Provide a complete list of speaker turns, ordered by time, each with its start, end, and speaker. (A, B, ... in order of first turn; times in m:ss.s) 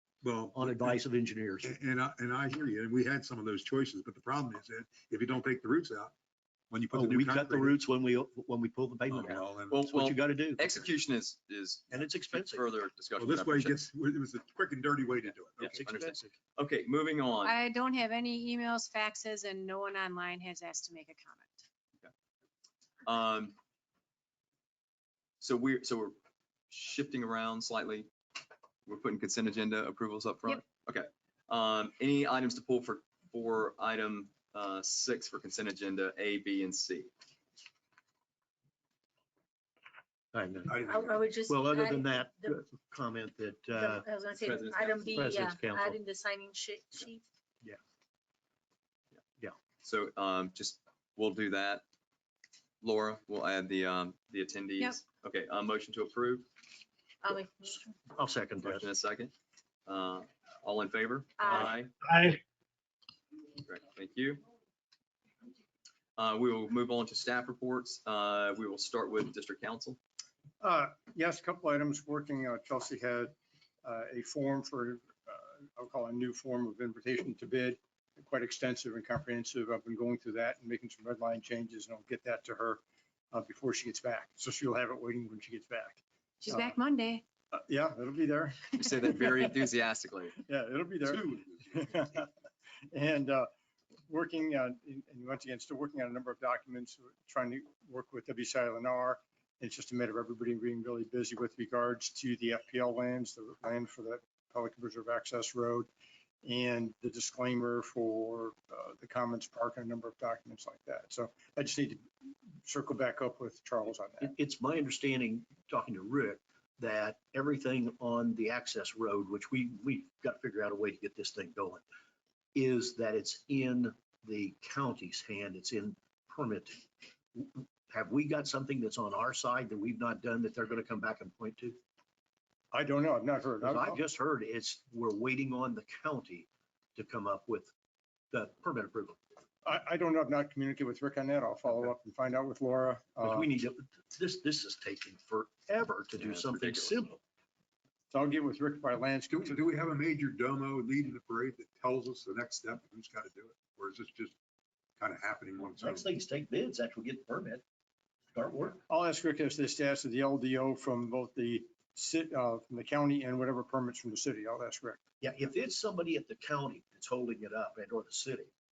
0:00.2-0:01.0 A
0:00.5-0:01.8 B
0:01.6-0:06.1 A
0:06.7-0:07.8 A
0:06.9-0:10.9 B
0:09.1-0:09.8 A
0:09.2-0:13.8 C
0:11.9-0:12.6 B
0:13.2-0:15.8 A
0:15.6-0:17.6 C
0:15.6-0:16.4 B
0:17.4-0:21.6 D
0:23.0-0:23.6 C
0:25.4-0:26.2 C
0:26.7-0:28.1 C
0:28.9-0:37.1 C
0:40.3-0:40.9 B
0:40.7-0:41.1 A
0:40.8-0:42.6 E
0:41.5-0:44.1 B
0:43.8-0:47.2 E
0:44.3-0:45.4 C
0:45.1-0:46.0 B
0:49.8-0:51.8 C
0:52.8-0:56.5 C
0:57.2-0:58.0 E
0:58.1-0:58.9 B
0:58.6-0:59.3 C
0:59.9-1:01.9 C
1:01.4-1:01.7 E
1:03.6-1:04.4 C
1:06.2-1:10.0 C
1:10.6-1:26.8 F
1:26.4-1:27.2 D
1:27.5-1:29.4 F
1:28.7-1:30.4 C
1:30.4-1:32.3 F
1:31.1-1:31.8 A
1:32.9-1:33.5 F
1:34.1-1:45.9 F
1:46.4-1:52.0 F
1:52.6-1:54.3 F
1:54.2-2:01.8 B
2:02.6-2:11.8 B
2:12.7-2:14.0 F
2:13.6-2:17.7 B
2:18.3-2:19.2 B
2:19.6-2:23.5 F
2:21.7-2:21.9 B
2:23.2-2:27.2 B
2:26.2-2:27.1 C
2:28.1-2:29.6 F
2:29.3-2:34.4 A
2:35.0-2:36.1 A
2:35.6-2:37.6 B
2:38.3-2:38.8 B
2:38.9-2:45.0 F
2:45.2-2:48.5 B